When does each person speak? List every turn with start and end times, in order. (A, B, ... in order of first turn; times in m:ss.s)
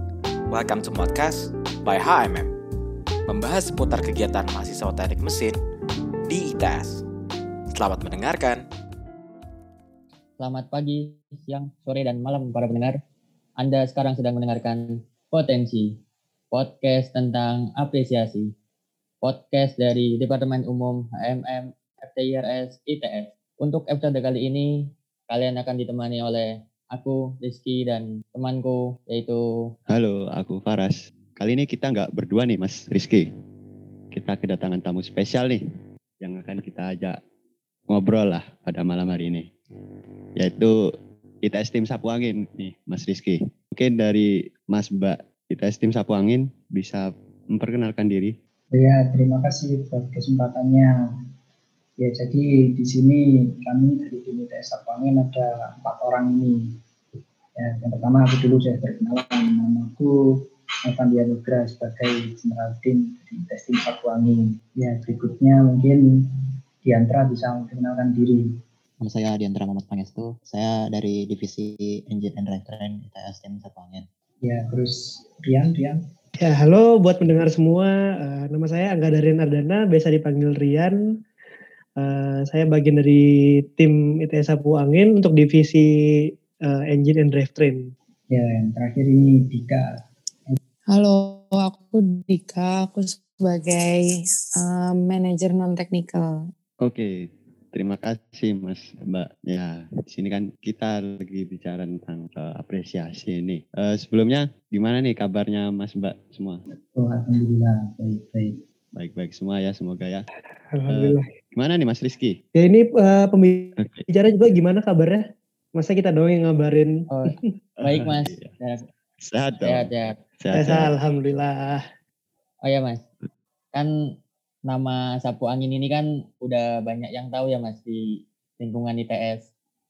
0:00.5-0:02.5 A
0:03.3-0:05.6 A
0:06.3-0:07.0 A
0:07.7-0:08.6 A
0:10.4-0:13.0 B
0:13.6-0:15.9 B
0:16.5-0:18.5 B
0:19.2-0:24.7 B
0:25.3-0:29.4 B
0:29.9-0:33.3 C
0:34.1-0:35.6 C
0:36.2-0:37.2 C
0:37.9-0:39.5 C
0:40.4-0:40.7 C
0:41.4-0:48.3 C
0:48.7-0:50.9 D
0:52.0-0:56.6 D
0:57.6-1:06.1 D
1:06.8-1:08.4 D
1:09.0-1:14.0 E
1:14.4-1:16.0 D
1:16.4-1:21.0 F
1:22.0-1:23.2 F
1:23.8-1:27.9 F
1:28.3-1:29.9 D
1:30.9-1:36.5 G
1:36.8-1:37.1 C
1:37.7-1:46.6 C
1:47.0-1:48.6 D
1:49.0-1:50.3 C
1:50.7-1:51.3 F
1:50.9-1:52.4 C
1:52.6-1:55.2 F
1:53.8-1:54.0 C
1:55.8-1:56.9 F
1:57.1-1:58.8 B
1:57.8-1:58.5 C
1:59.2-2:00.9 C
1:59.6-2:00.1 B
2:00.5-2:01.8 F
2:02.6-2:03.0 B
2:04.7-2:08.0 B
2:08.6-2:09.4 B